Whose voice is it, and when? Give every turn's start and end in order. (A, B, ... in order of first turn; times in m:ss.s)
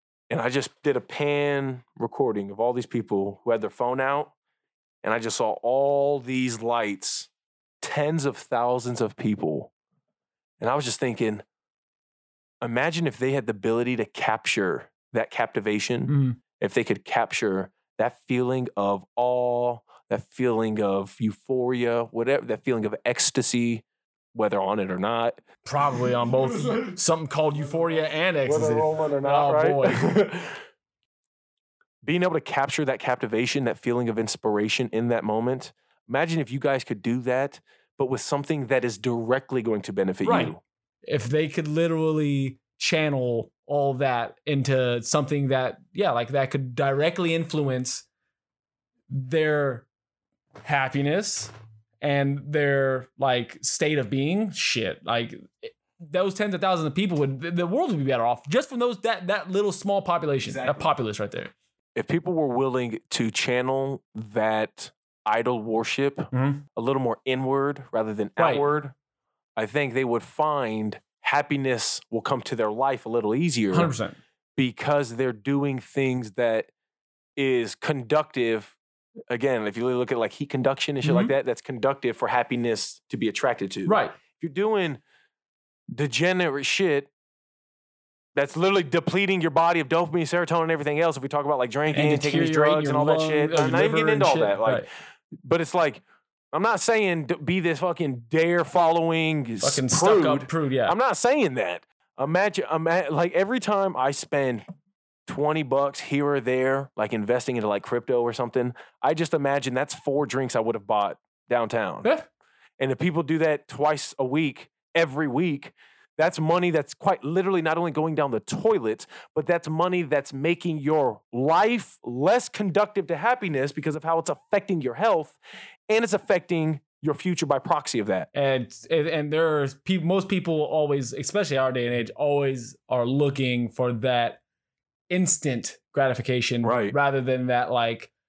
0:00.3-0:04.3 A
0:05.0-0:07.3 A
0:07.8-0:09.7 A
0:10.6-0:11.4 A
0:12.6-0:25.4 A
0:16.1-0:16.4 B
0:25.6-0:30.1 B
0:28.4-0:30.6 A
0:32.0-0:40.6 A
0:40.2-0:40.5 B
0:41.0-0:48.0 B
0:49.1-0:49.8 B
0:50.6-1:01.5 B
1:00.4-1:00.9 A
1:02.0-1:08.9 A
1:06.3-1:06.6 B
1:08.4-1:08.7 B
1:09.6-1:13.9 A
1:13.7-1:14.2 B
1:14.6-1:16.7 A
1:17.4-1:18.8 A
1:19.3-1:25.0 A
1:21.0-1:21.3 B
1:23.8-1:24.1 B
1:25.9-1:27.1 A
1:28.3-1:34.8 A
1:31.9-1:34.9 B
1:35.4-1:36.0 A
1:36.5-1:44.6 A
1:39.6-1:40.9 B
1:45.2-1:52.1 A
1:52.8-2:05.4 A
2:05.9-2:08.3 A
2:08.3-2:14.4 B
2:15.1-2:18.1 B
2:16.6-2:16.9 A